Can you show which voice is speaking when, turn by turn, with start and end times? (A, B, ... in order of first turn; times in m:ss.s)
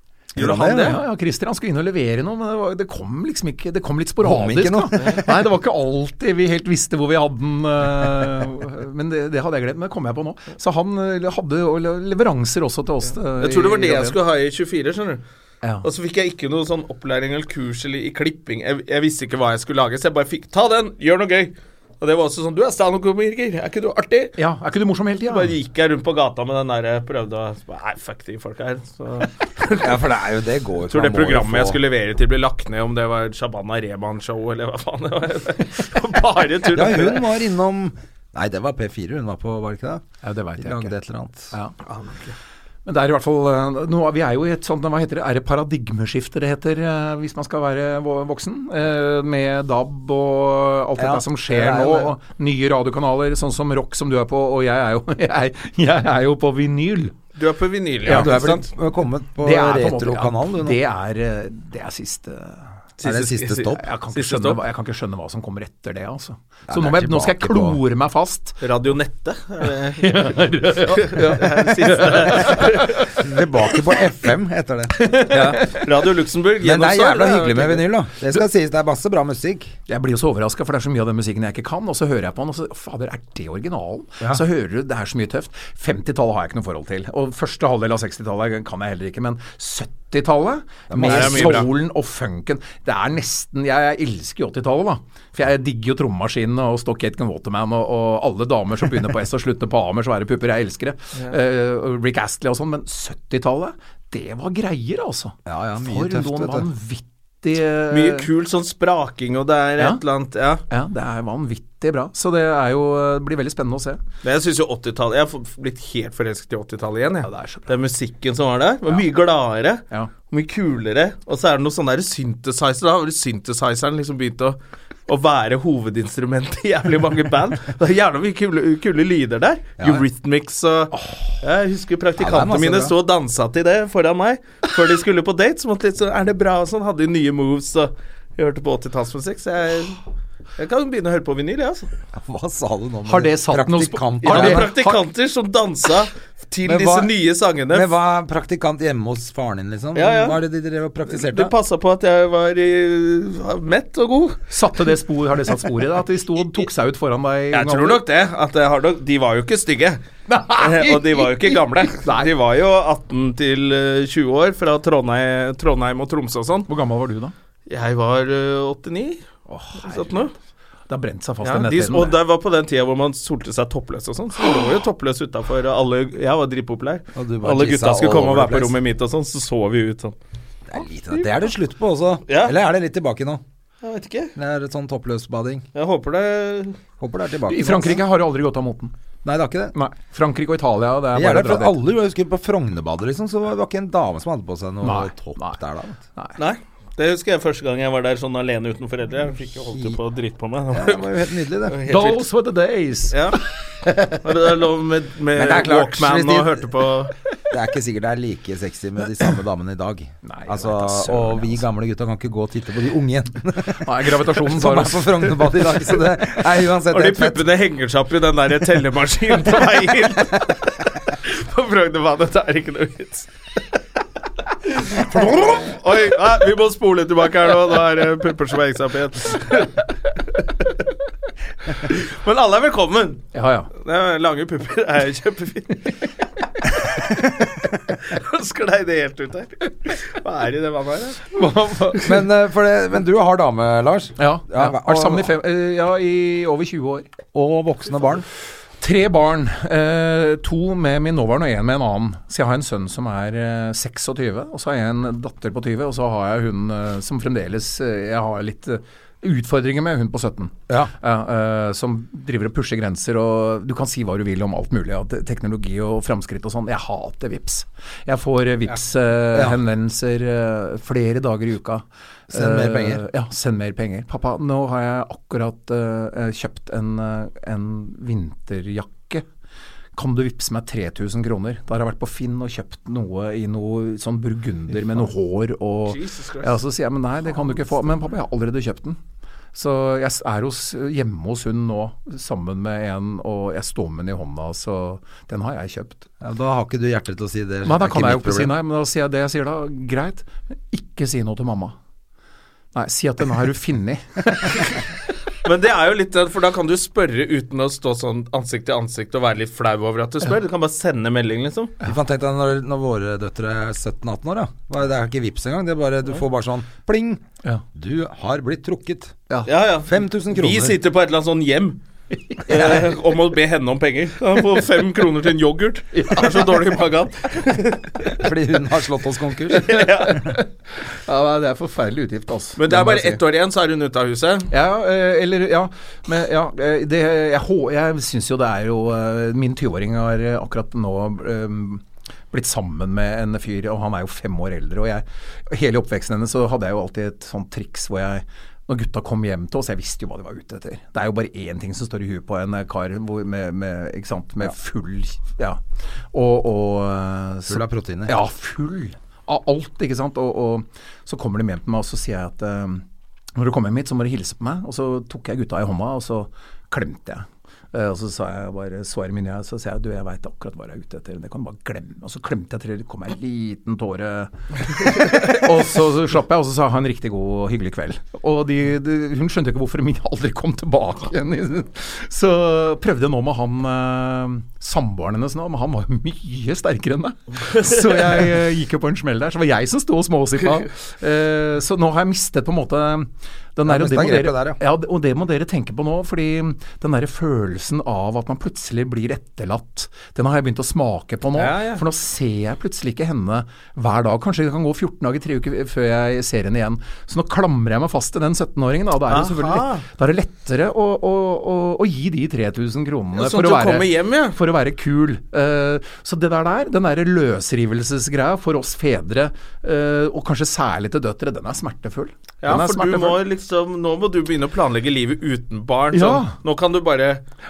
0:00.4-0:01.0 A
0:00.4-0:01.0 B
0:00.6-0:14.2 C
0:04.2-0:05.4 A
0:13.4-0:15.2 B
0:15.8-0:24.4 B
0:24.4-0:25.5 C
0:25.3-0:30.0 B
0:29.8-0:31.8 A
0:30.9-0:37.3 B
0:36.7-0:40.0 A
0:40.2-0:40.9 C
0:40.6-0:41.5 A
0:41.8-0:42.4 B
0:42.9-0:57.2 C
0:51.0-0:52.1 A
0:57.4-0:58.7 B
0:58.0-1:00.8 A
0:58.1-0:58.6 C
0:59.4-1:02.7 C
1:03.0-1:04.6 B
1:03.0-1:03.8 A
1:03.8-1:08.6 C
1:06.7-1:07.8 A
1:08.6-1:13.1 B
1:10.0-1:13.2 C
1:13.2-1:15.7 A
1:15.1-1:15.8 C
1:15.6-1:17.9 B
1:16.6-1:19.7 A
1:19.9-1:48.3 C
1:30.9-1:31.7 A
1:31.0-1:31.7 B
1:45.5-1:46.7 A
1:47.9-1:50.6 B
1:50.7-1:54.0 C
1:54.2-2:20.0 B
1:57.2-1:57.7 C
2:09.8-2:10.0 A
2:12.2-2:13.0 A
2:20.6-2:21.9 B
2:22.1-2:24.7 A
2:23.0-2:25.0 C
2:24.2-2:27.9 B
2:26.6-2:27.1 A
2:27.7-2:31.5 A
2:30.0-2:30.4 B
2:31.1-2:34.4 B
2:34.5-2:38.0 C
2:37.5-2:40.0 B
2:40.3-2:42.3 C
2:40.6-2:46.7 B
2:46.7-2:47.3 C
2:47.7-2:49.2 B
2:49.5-2:50.3 C
2:49.8-2:50.3 B
2:50.9-2:52.2 C
2:51.4-3:00.2 B
2:57.1-2:58.8 A
3:00.7-3:03.4 A
3:02.3-3:02.6 B
3:03.8-3:04.3 B
3:04.4-3:05.7 A
3:05.8-3:06.8 B
3:07.0-3:08.0 A
3:07.5-3:08.9 C
3:09.2-3:09.7 A
3:09.7-3:11.8 C
3:11.1-3:16.0 A
3:14.8-3:15.6 C
3:16.4-3:22.2 B
3:19.7-3:20.0 A
3:20.7-3:21.8 A
3:21.9-3:24.2 C
3:23.1-3:23.4 B
3:24.2-3:27.1 B
3:25.4-3:26.7 A
3:27.5-3:37.4 A
3:30.2-3:31.6 C
3:33.8-3:35.6 C
3:36.9-3:43.3 B
3:44.7-3:49.9 B
3:51.8-3:55.8 B
3:53.3-3:53.7 C
3:56.7-4:01.4 B
4:01.3-4:02.1 C
4:02.0-4:05.3 A
4:04.2-4:07.1 C
4:07.3-4:08.3 A
4:08.8-4:39.3 C
4:29.3-4:29.6 A
4:32.3-4:33.0 A
4:40.0-4:49.0 C
4:45.9-4:46.6 B
4:49.5-4:56.1 C
4:56.2-4:58.6 A
4:57.6-5:01.8 C
5:02.8-5:04.6 C
5:05.4-5:11.7 B
5:11.8-5:17.2 A
5:17.7-5:20.8 A
5:19.5-5:21.8 B
5:22.5-5:28.1 B
5:25.9-5:26.2 C
5:28.1-5:29.8 A
5:29.5-5:30.4 B
5:29.7-5:33.2 C
5:32.6-5:34.5 B
5:34.5-5:55.6 C
5:56.1-7:03.2 C
5:57.5-5:58.2 A
6:33.6-6:34.6 A
6:41.4-6:41.8 B
6:49.1-6:49.8 B
6:53.2-6:54.4 B
7:02.4-7:07.2 B
7:05.9-7:06.4 C